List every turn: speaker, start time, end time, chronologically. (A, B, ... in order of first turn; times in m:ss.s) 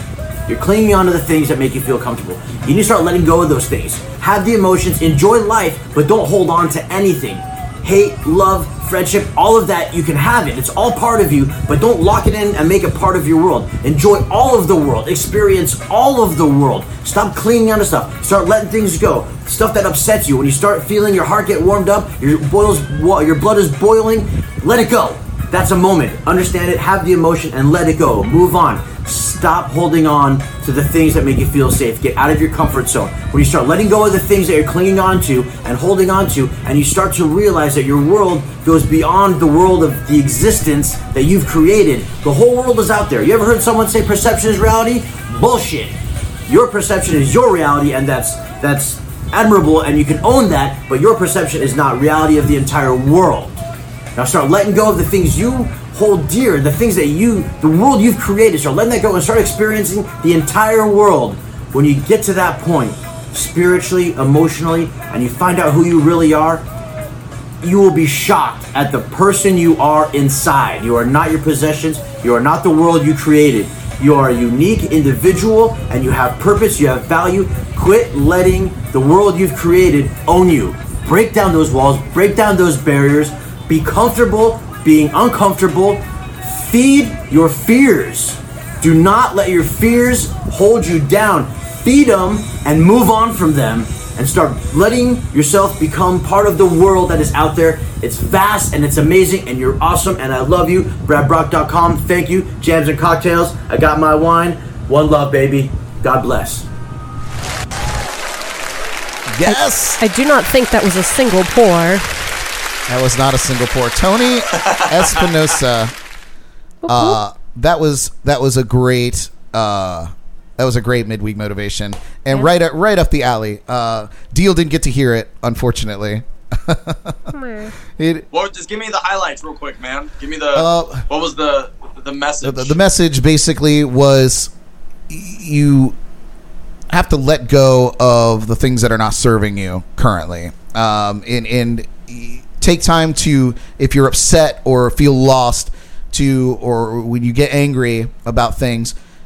0:00.5-0:53.6 A
0:54.2-1:06.6 A
1:07.6-1:46.7 A
1:49.3-1:50.0 B
1:49.4-1:52.2 C
1:52.9-1:55.9 B
1:54.5-1:55.3 D
1:56.8-1:57.2 C
1:56.9-2:07.3 B
2:07.3-2:07.7 C
2:08.0-2:08.3 B
2:08.3-2:12.8 D
2:10.5-2:11.1 B
2:12.4-2:14.5 B
2:15.1-2:16.0 B
2:16.9-2:29.0 B